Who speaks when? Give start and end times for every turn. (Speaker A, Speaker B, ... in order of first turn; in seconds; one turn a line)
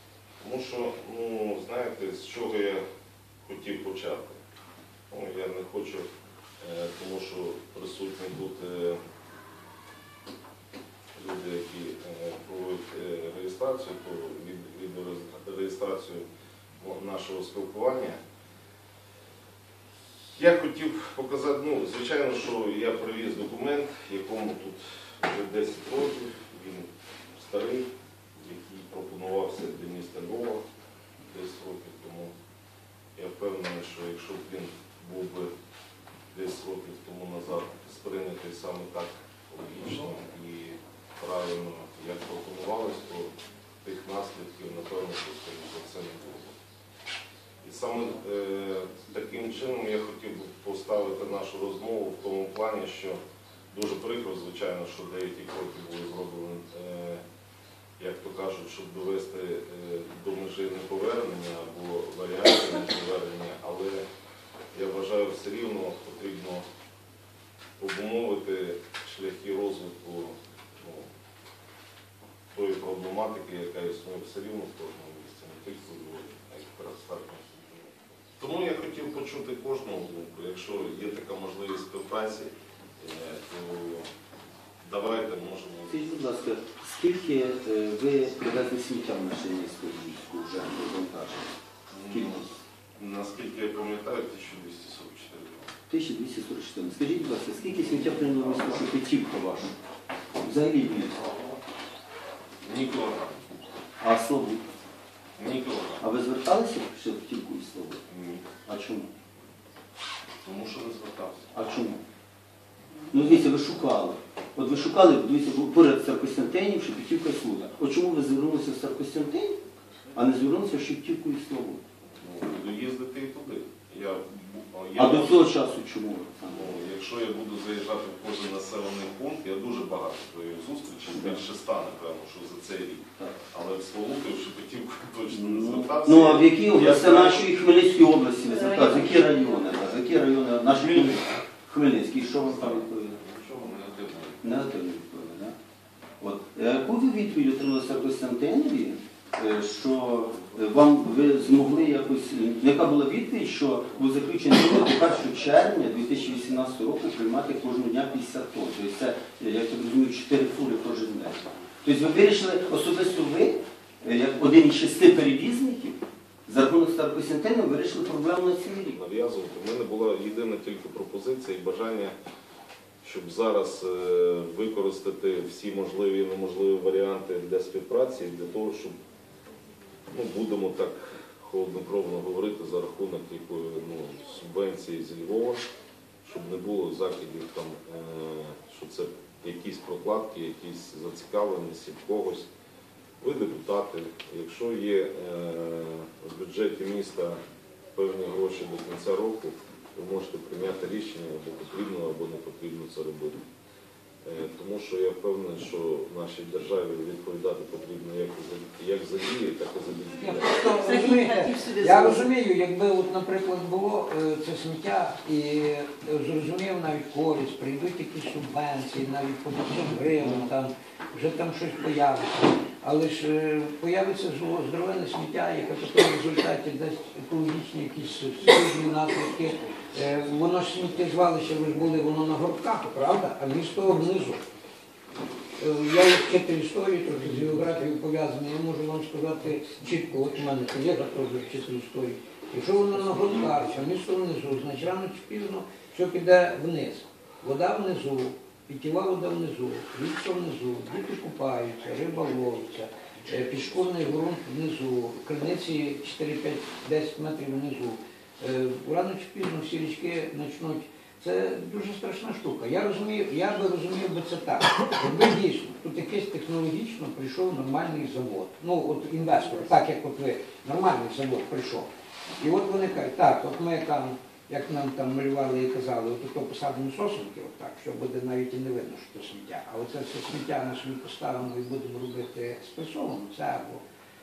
Speaker A: 0.4-2.8
Speaker A: 3.5-4.4
Speaker A: 5.1-6.1
Speaker A: 6.6-9.0
Speaker A: 11.2-16.2
Speaker A: 16.8-18.2
Speaker A: 20.4-30.6
Speaker A: 31.3-32.3
Speaker A: 33.2-35.5
Speaker A: 36.3-43.3
Speaker A: 43.8-46.5
Speaker A: 47.6-53.2
Speaker A: 53.7-57.2
Speaker A: 58.0-64.0
Speaker A: 64.7-66.7
Speaker A: 67.8-71.1
Speaker A: 72.5-84.1
Speaker A: 84.8-86.0
Speaker B: 85.9-91.5
Speaker A: 91.9-92.5
Speaker B: 92.1-92.4
Speaker A: 93.0-95.7
Speaker B: 95.9-99.7
Speaker A: 97.8-99.0
Speaker B: 100.4-101.2
Speaker A: 102.6-103.5
Speaker B: 104.0-104.7
Speaker A: 105.4-106.0
Speaker B: 106.0-108.0
Speaker A: 108.1-108.5
Speaker B: 108.7-109.1
Speaker A: 110.4-111.6
Speaker B: 111.5-112.0
Speaker B: 113.1-119.6
Speaker B: 120.2-121.8
Speaker A: 122.2-125.6
Speaker B: 125.0-126.7
Speaker A: 126.5-137.6
Speaker B: 135.3-143.2
Speaker A: 140.8-141.2
Speaker A: 142.2-144.5
Speaker B: 144.4-145.6
Speaker B: 146.2-168.9
Speaker A: 168.9-172.2
Speaker A: 173.0-178.9
Speaker A: 180.1-185.7
Speaker A: 186.2-192.5
Speaker A: 193.2-197.4
Speaker A: 197.9-203.4
Speaker A: 204.2-210.6
Speaker C: 210.1-234.4
Speaker C: 235.6-283.8